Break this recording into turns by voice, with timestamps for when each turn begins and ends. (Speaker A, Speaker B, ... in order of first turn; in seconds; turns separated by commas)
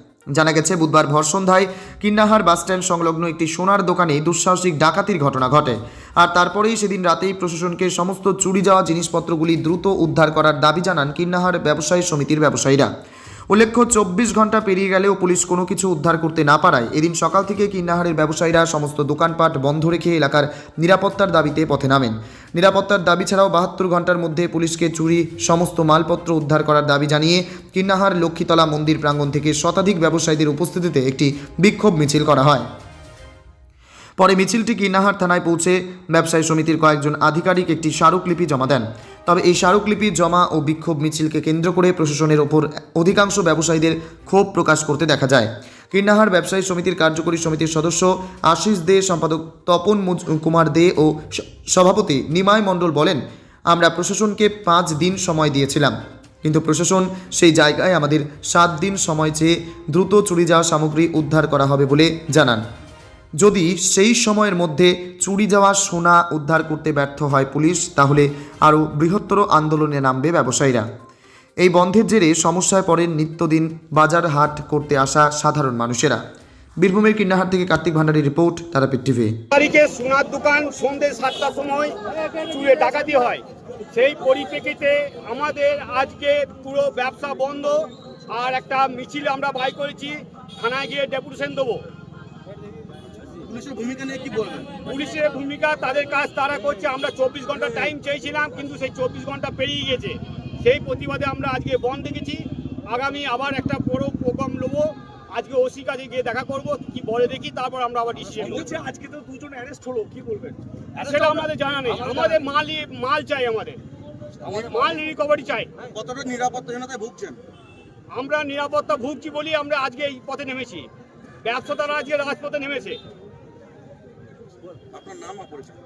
Speaker A: 0.3-12.9, Speaker A: 13.5-32.7, Speaker A: 34.2-62.6, Speaker A: 63.4-70.9, Speaker A: 71.6-76.2, Speaker A: 76.8-79.3, Speaker B: 79.5-91.8, Speaker C: 93.4-94.8, Speaker B: 94.8-108.7, Speaker C: 108.4-111.4, Speaker B: 111.0-113.8, Speaker C: 114.4-114.7, Speaker B: 114.4-115.7, Speaker C: 115.8-117.4, Speaker B: 118.1-120.9, Speaker B: 121.4-123.0, Speaker C: 124.8-125.8